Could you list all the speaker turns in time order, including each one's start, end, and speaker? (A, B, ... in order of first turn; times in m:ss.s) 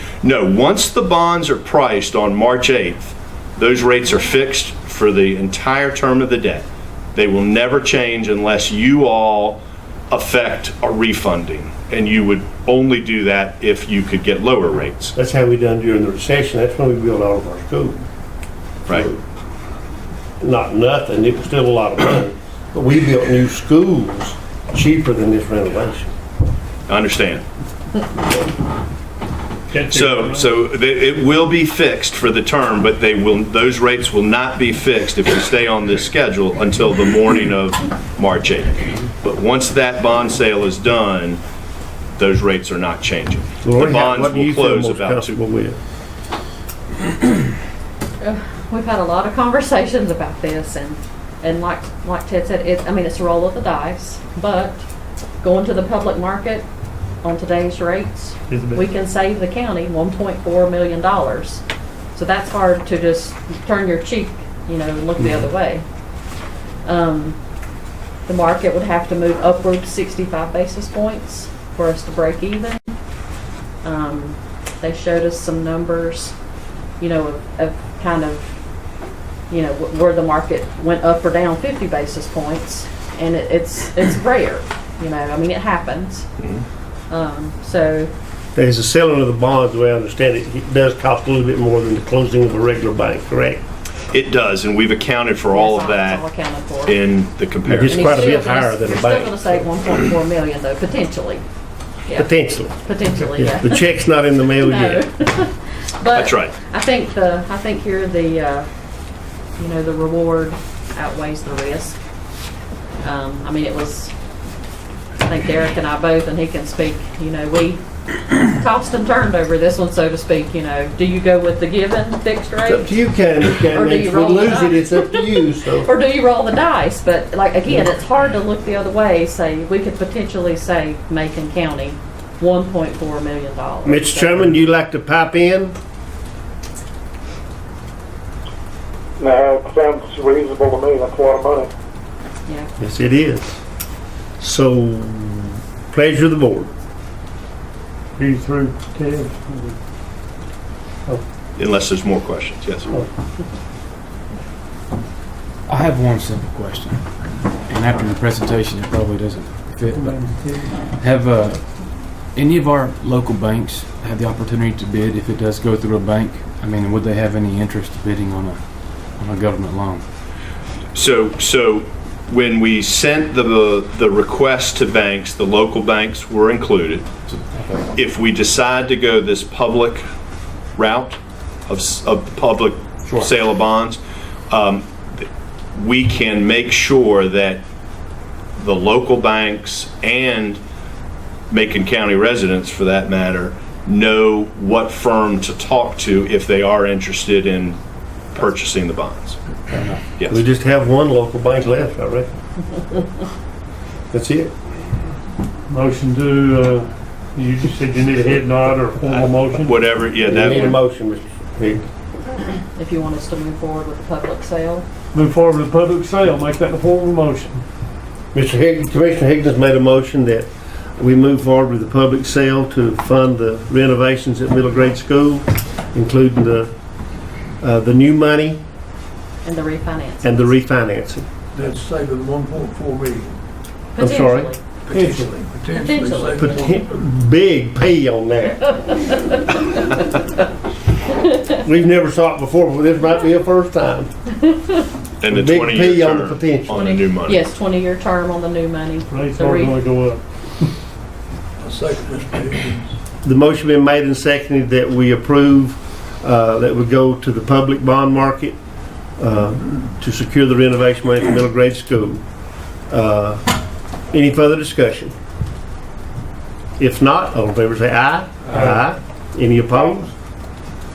0:00.2-0:15.1 A
0:15.1-0:18.0 B
0:18.9-0:19.2 B
0:20.4-0:26.1 B
0:26.9-0:27.4 A
0:29.7-0:30.4 C
0:29.8-0:41.4 A
0:42.2-0:45.4 A
0:43.6-0:45.8 B
0:48.2-0:54.8 D
0:55.4-0:56.6 D
0:57.2-1:01.6 D
0:58.5-0:58.9 C
1:02.1-1:05.8 D
1:06.8-1:07.4 D
1:08.2-1:12.8 D
1:13.8-1:16.3 D
1:17.0-1:18.5 D
1:19.5-1:26.3 D
1:27.1-1:28.1 D
1:28.5-1:33.6 B
1:34.1-1:36.3 A
1:35.5-1:37.0 D
1:36.8-1:38.3 A
1:37.6-1:39.7 B
1:37.8-1:41.4 D
1:42.1-1:43.9 D
1:42.1-1:45.0 B
1:44.6-1:48.7 D
1:46.1-1:46.6 A
1:49.6-1:52.0 D
1:53.0-1:54.1 D
1:55.2-2:02.9 D
2:02.6-2:05.9 B
2:03.6-2:14.6 D
2:13.8-2:15.7 B
2:19.2-2:21.6 E
2:22.8-2:23.6 B
2:24.4-2:26.7 B
2:28.2-2:29.8 C
2:31.5-2:32.9 A
2:35.7-2:50.0 F
2:39.9-2:40.8 C
2:50.9-2:57.1 A
2:57.4-2:57.8 F
2:57.9-3:00.0 A
3:00.8-3:07.6 A
3:08.6-3:10.6 A
3:11.5-3:17.8 A
3:18.3-3:19.4 A
3:19.7-3:20.0 F
3:20.3-3:22.3 B
3:24.1-3:24.5 B
3:25.7-3:30.0 C
3:29.1-3:30.7 A
3:30.2-3:31.8 B
3:32.7-3:34.8 D
3:35.1-3:37.6 C
3:38.3-3:46.7 B
3:47.6-3:48.6 B
3:49.4-3:50.6 D
3:50.2-3:51.2 B
3:51.5-3:53.4 G
3:54.0-3:54.6 D
3:54.0-3:54.5 B
3:54.8-3:57.0 G
3:55.7-3:56.5 D
3:56.4-3:59.1 B
4:01.5-4:04.1 B
4:05.2-4:07.4 A
4:05.2-4:06.9 B
4:06.7-4:09.8 D
4:09.1-4:10.7 C
4:11.6-4:13.0 G
4:13.2-4:18.6 B
4:19.2-4:22.2 B
4:22.9-4:23.5 B
4:24.1-4:25.1 B
4:26.8-4:30.1 B
4:28.5-4:28.8 C